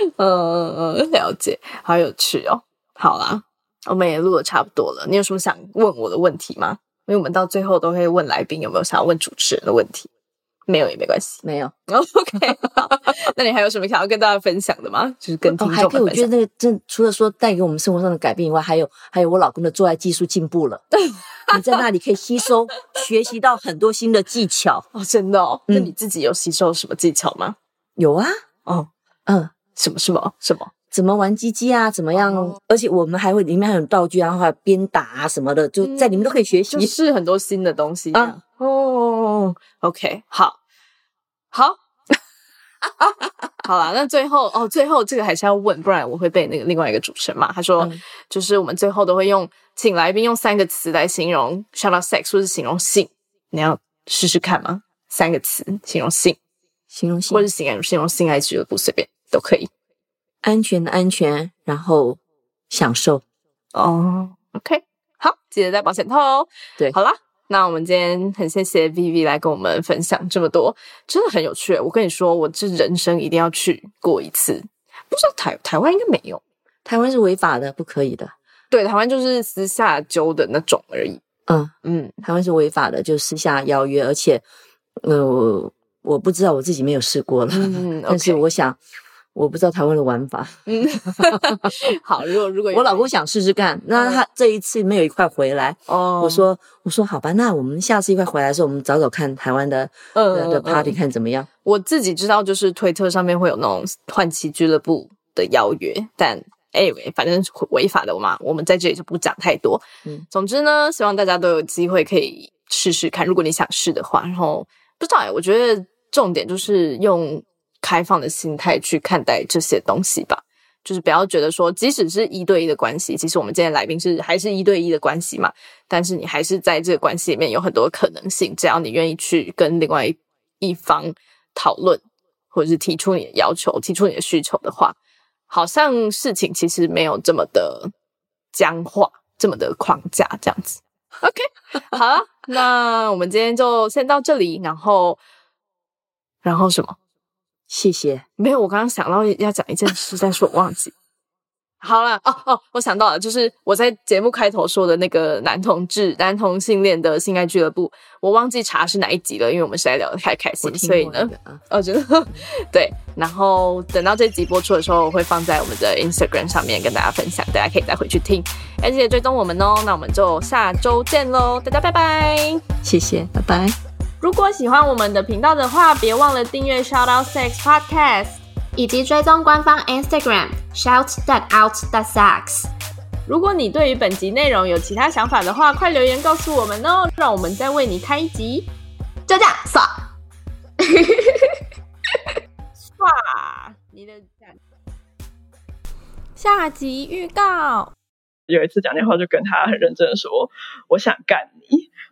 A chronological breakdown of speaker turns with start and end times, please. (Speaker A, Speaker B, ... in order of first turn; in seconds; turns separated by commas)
Speaker A: 0.2-10.1, Speaker A: 10.7-16.3, Speaker B: 11.4-11.7, Speaker B: 15.5-20.8, Speaker A: 20.9-21.8, Speaker B: 21.5-24.9, Speaker A: 24.9-27.6, Speaker B: 28.0-28.4, Speaker B: 29.2-29.5, Speaker A: 29.7-30.7, Speaker B: 30.9-36.9, Speaker A: 32.2-32.5, Speaker A: 35.8-40.6, Speaker A: 41.5-41.8, Speaker A: 43.0-56.4, Speaker B: 56.9-57.5, Speaker A: 57.3-59.7, Speaker B: 60.4-62.2, Speaker B: 62.7-63.2, Speaker A: 63.7-76.4, Speaker B: 76.8-78.3, Speaker A: 78.7-81.2, Speaker B: 81.5-84.4, Speaker A: 81.8-82.1, Speaker B: 85.0-88.8, Speaker A: 87.5-88.4, Speaker B: 89.3-90.7, Speaker A: 90.7-93.1, Speaker B: 91.2-91.7, Speaker B: 92.7-101.5, Speaker A: 95.9-96.5, Speaker A: 100.1-100.9, Speaker A: 101.6-134.9, Speaker A: 135.5-137.9, Speaker A: 138.5-145.2, Speaker A: 146.4-147.0, Speaker B: 147.7-148.2, Speaker A: 148.4-150.9, Speaker A: 151.8-172.6, Speaker B: 160.6-161.6, Speaker B: 172.8-173.8, Speaker A: 174.2-178.4, Speaker C: 178.8-182.7, Speaker A: 183.3-188.7, Speaker C: 189.3-190.1, Speaker C: 190.8-191.4, Speaker A: 193.0-194.5, Speaker A: 196.4-197.9, Speaker D: 198.5-201.9